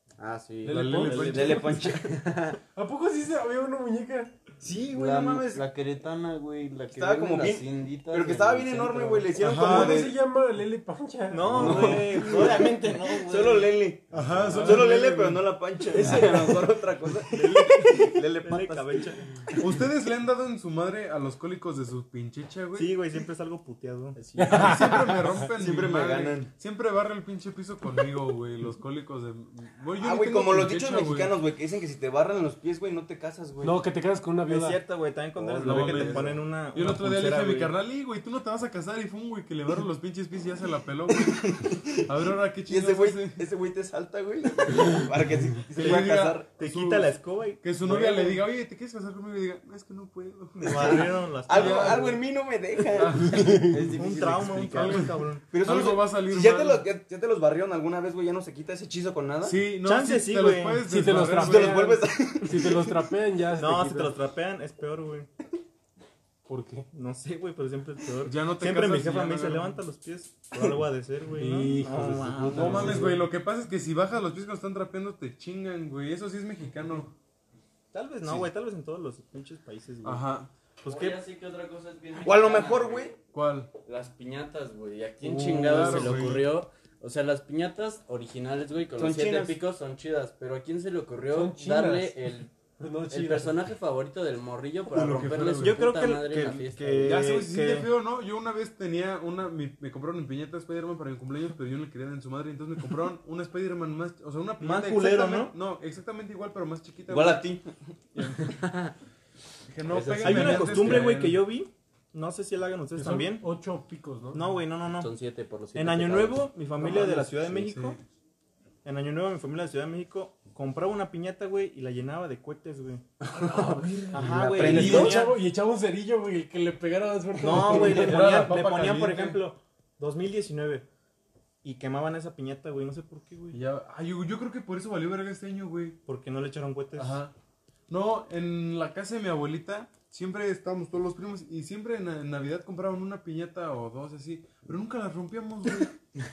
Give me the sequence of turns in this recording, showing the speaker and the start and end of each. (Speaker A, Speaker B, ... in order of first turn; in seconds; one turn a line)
Speaker A: 0.2-2.6
Speaker B: 0.6-1.9
Speaker C: 0.7-1.4
Speaker D: 1.1-2.2
Speaker C: 2.8-4.3
Speaker D: 4.6-5.7
Speaker A: 4.9-9.3
Speaker D: 6.9-10.1
Speaker B: 9.4-10.1
Speaker C: 9.4-12.7
Speaker E: 11.3-13.8
Speaker D: 11.5-19.1
Speaker B: 14.1-15.5
Speaker C: 14.4-14.9
Speaker C: 15.9-16.7
Speaker E: 17.3-19.3
Speaker B: 19.6-22.9
Speaker E: 22.8-24.2
Speaker A: 24.2-25.1
Speaker C: 24.4-25.5
Speaker B: 24.5-31.3
Speaker D: 25.6-26.5
Speaker D: 30.0-33.9
Speaker C: 33.6-34.8
Speaker E: 34.5-37.7
Speaker A: 35.4-36.4
Speaker B: 35.6-41.5
Speaker D: 35.6-36.2
Speaker D: 41.1-42.1
Speaker B: 42.0-43.4
Speaker D: 42.7-46.5
Speaker B: 45.7-52.1
Speaker E: 45.8-48.4
Speaker E: 50.6-52.2
Speaker D: 50.6-54.0
Speaker B: 53.0-53.7
Speaker C: 53.2-53.7
Speaker A: 53.3-55.1
Speaker E: 54.0-55.5
Speaker B: 54.7-56.8
Speaker D: 55.5-59.6
Speaker B: 59.4-61.9
Speaker E: 59.7-60.9
Speaker C: 60.9-64.2
Speaker D: 61.3-63.0
Speaker E: 63.6-65.3
Speaker C: 66.5-66.9
Speaker E: 66.9-73.1
Speaker B: 68.2-69.8
Speaker D: 70.5-70.8
Speaker C: 71.4-73.2
Speaker B: 72.5-77.1
Speaker E: 77.9-80.2
Speaker B: 78.2-78.5
Speaker B: 80.0-80.5
Speaker E: 80.8-81.2
Speaker A: 80.8-83.1
Speaker D: 82.2-83.2
Speaker B: 83.3-83.7
Speaker A: 83.8-92.5
Speaker B: 85.2-86.4
Speaker E: 85.8-86.4
Speaker D: 89.0-89.5
Speaker C: 91.3-93.7
Speaker A: 93.1-97.2
Speaker B: 94.9-95.8
Speaker E: 95.0-97.9
Speaker B: 97.0-107.4
Speaker E: 104.6-105.6
Speaker D: 107.1-107.9
Speaker A: 108.4-108.9
Speaker B: 109.7-111.4
Speaker A: 109.9-111.2
Speaker E: 110.2-113.5
Speaker C: 113.0-114.4
Speaker E: 114.3-115.1
Speaker A: 115.0-117.7
Speaker E: 115.7-118.0
Speaker B: 117.7-118.0
Speaker E: 118.8-123.0
Speaker C: 123.3-128.3
Speaker A: 123.4-125.1
Speaker E: 124.1-125.4
Speaker D: 124.4-125.2
Speaker B: 124.9-125.1
Speaker E: 127.4-130.8
Speaker B: 127.5-129.4
Speaker E: 131.6-133.6
Speaker B: 133.5-136.0
Speaker E: 136.1-137.2
Speaker B: 136.9-137.3
Speaker B: 137.9-145.9